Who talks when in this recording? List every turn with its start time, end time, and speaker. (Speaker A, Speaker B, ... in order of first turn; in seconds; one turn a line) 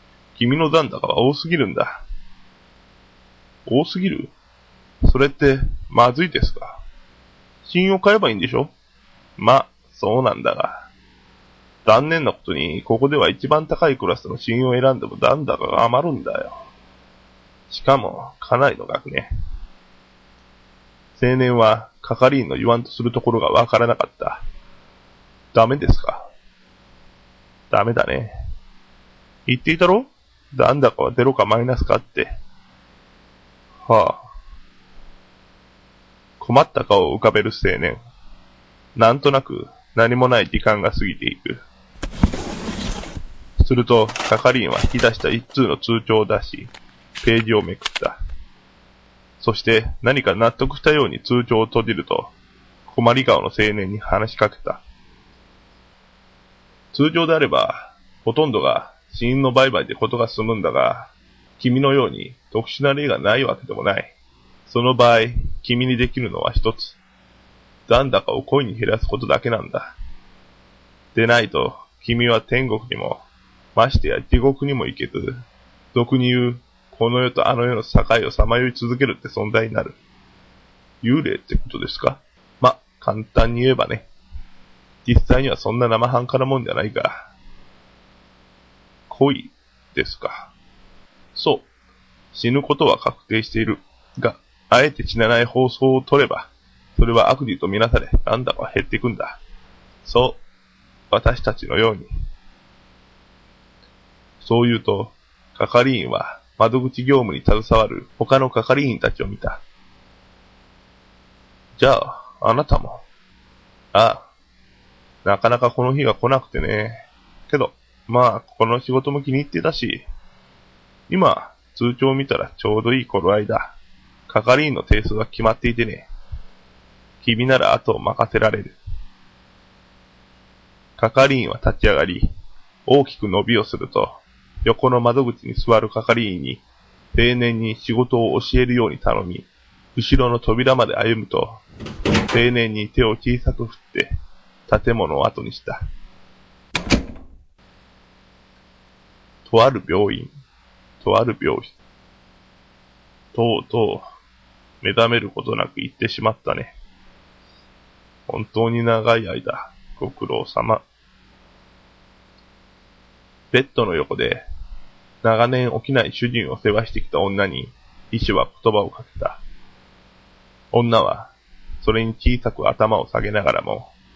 Speaker A: 0.4-2.0
Speaker A: 3.7-4.3
Speaker A: 5.0-6.8
Speaker A: 7.7-8.7
Speaker A: 9.4-10.8
Speaker A: 11.8-16.6
Speaker A: 17.7-19.3
Speaker A: 21.2-24.4
Speaker A: 25.5-26.3
Speaker A: 27.7-28.3
Speaker A: 29.5-32.3
Speaker A: 33.9-34.2
Speaker A: 36.4-38.0
Speaker A: 39.0-41.6
Speaker A: 43.6-48.2
Speaker A: 49.4-52.3
Speaker A: 52.9-54.8
Speaker A: 56.9-64.1
Speaker A: 64.7-67.0
Speaker A: 67.9-69.9
Speaker A: 71.2-73.2
Speaker A: 73.8-75.4
Speaker A: 75.9-80.0
Speaker A: 81.0-84.1
Speaker A: 85.0-87.3
Speaker A: 89.1-90.5
Speaker A: 91.3-91.7
Speaker A: 92.3-99.4
Speaker A: 100.0-100.4
Speaker A: 101.1-102.1
Speaker A: 104.4-109.6
Speaker A: 111.8-113.0
Speaker A: 113.9-114.2
Speaker A: 115.2-117.0
Speaker A: 117.5-120.0
Speaker A: 121.1-123.7
Speaker A: 124.3-126.1
Speaker A: 127.2-128.8
Speaker A: 131.0-132.3
Speaker A: 132.9-136.6
Speaker A: 137.1-141.6
Speaker A: 142.3-144.1
Speaker A: 144.7-145.8
Speaker A: 149.5-150.3
Speaker A: 151.0-151.7
Speaker A: 153.3-154.1
Speaker A: 154.8-156.8
Speaker A: 158.3-160.8
Speaker A: 163.5-164.4
Speaker A: 165.2-169.4
Speaker A: 170.7-173.9